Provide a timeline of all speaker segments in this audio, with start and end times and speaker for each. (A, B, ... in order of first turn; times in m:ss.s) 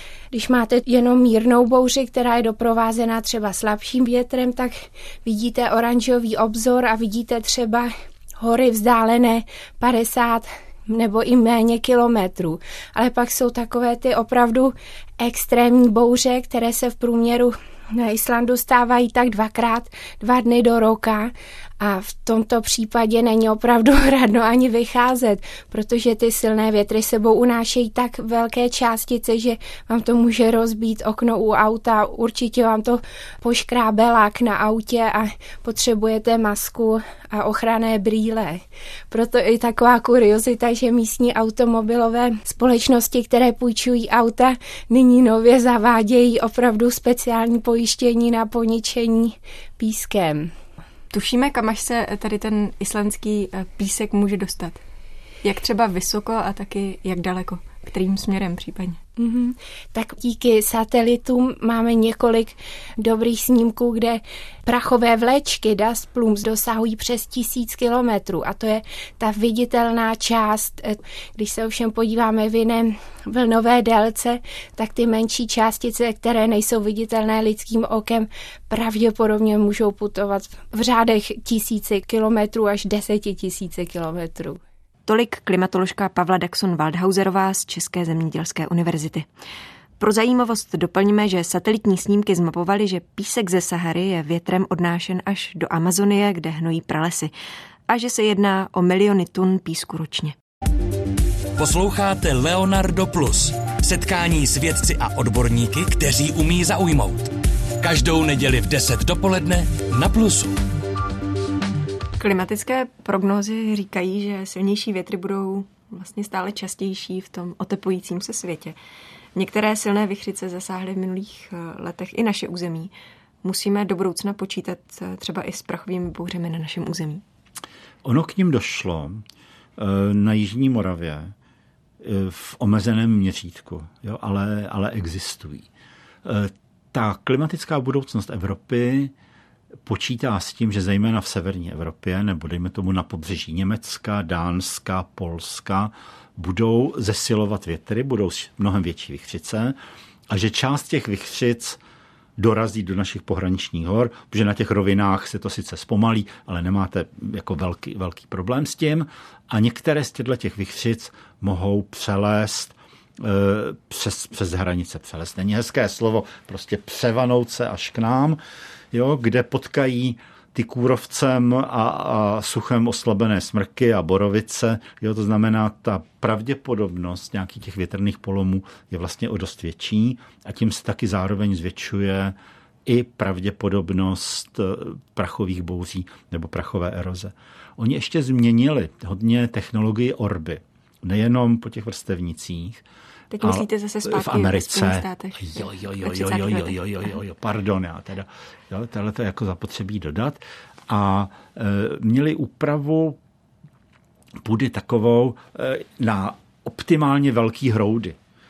0:00.3-0:50.5 A
0:51.1-0:54.8 B
0:55.4-0:59.0 B
0:59.2-1:24.6 A
1:25.1-1:29.3 B
1:30.0-1:37.3 B
1:37.9-1:40.3 B
1:41.6-1:50.6 C
1:52.2-1:58.8 B
1:59.3-2:02.9 B
2:03.4-2:07.2 B
2:08.0-2:09.2 D
2:09.8-2:11.3 D
2:12.0-2:15.7 D
2:16.2-2:19.1 D
2:19.9-2:29.8 D
2:30.3-2:31.8 D
2:32.4-2:48.4 D
2:48.9-3:12.8 D
3:13.3-3:16.8 B
3:13.4-3:23.2 D
3:24.4-3:28.2 D